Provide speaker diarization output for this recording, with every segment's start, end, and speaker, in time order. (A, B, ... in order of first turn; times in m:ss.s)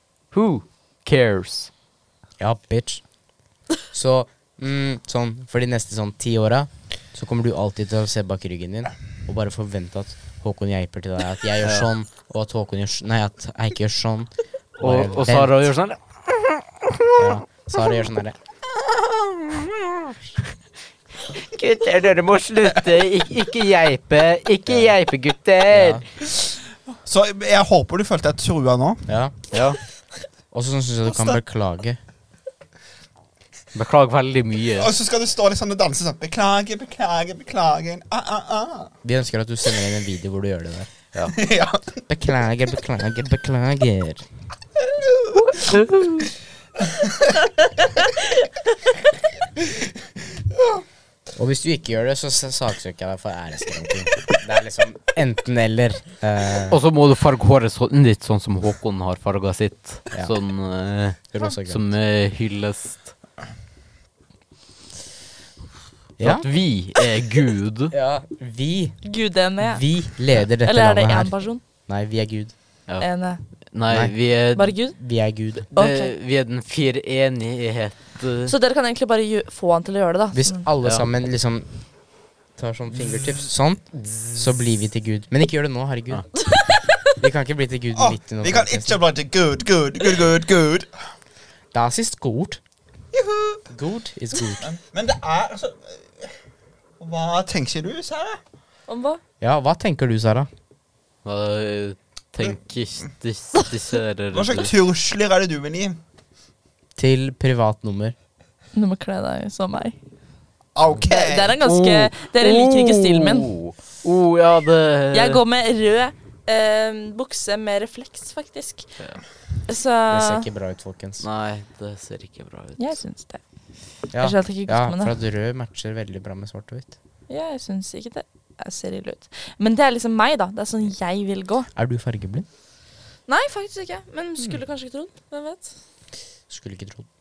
0:00.3-0:01.7 A
0:02.4-0:03.1 B
0:03.9-0:15.7 B
0:11.6-0:11.9 A
0:14.8-0:17.2 A
0:17.2-0:18.4 B
0:21.3-0:26.0 A
0:25.7-0:26.0 B
0:26.9-0:29.1 C
0:29.0-0:29.3 B
0:29.5-0:29.8 A
0:30.5-0:32.0 B
0:31.1-0:31.4 C
0:33.7-0:34.9 A
0:34.8-0:38.9 C
0:39.0-0:40.9 B
0:41.4-0:42.0 C
0:42.1-0:44.3 B
0:45.7-0:46.2 A
0:51.4-0:56.8 B
0:56.7-1:03.1 A
1:01.3-1:01.9 B
1:06.2-1:06.5 B
1:06.2-1:07.9 A
1:07.9-1:09.0 B
1:09.0-1:09.9 D
1:09.6-1:12.5 B
1:10.6-1:11.6 D
1:13.0-1:13.4 D
1:13.6-1:14.7 A
1:13.9-1:14.2 B
1:14.5-1:15.0 D
1:14.9-1:15.7 B
1:15.7-1:16.1 D
1:15.7-1:18.5 A
1:18.4-1:20.7 D
1:20.3-1:21.7 B
1:22.5-1:26.2 B
1:26.4-1:27.1 D
1:27.2-1:29.0 B
1:27.9-1:30.9 C
1:31.7-1:32.6 B
1:33.1-1:33.6 C
1:33.7-1:34.7 B
1:34.6-1:36.3 C
1:37.0-1:38.4 C
1:38.9-1:39.2 D
1:39.4-1:40.5 B
1:41.2-1:44.7 A
1:44.3-1:46.0 C
1:47.0-1:48.1 B
1:48.7-1:49.9 D
1:50.7-1:51.6 C
1:51.1-1:53.5 D
1:51.6-1:55.4 A
1:55.1-1:58.9 D
1:59.7-2:00.4 D
2:00.1-2:01.2 B
2:01.2-2:02.9 A
2:02.8-2:03.4 D
2:04.1-2:06.9 B
2:04.1-2:05.1 D
2:07.3-2:11.7 D
2:11.7-2:12.5 B
2:13.3-2:15.7 D
2:16.5-2:17.1 B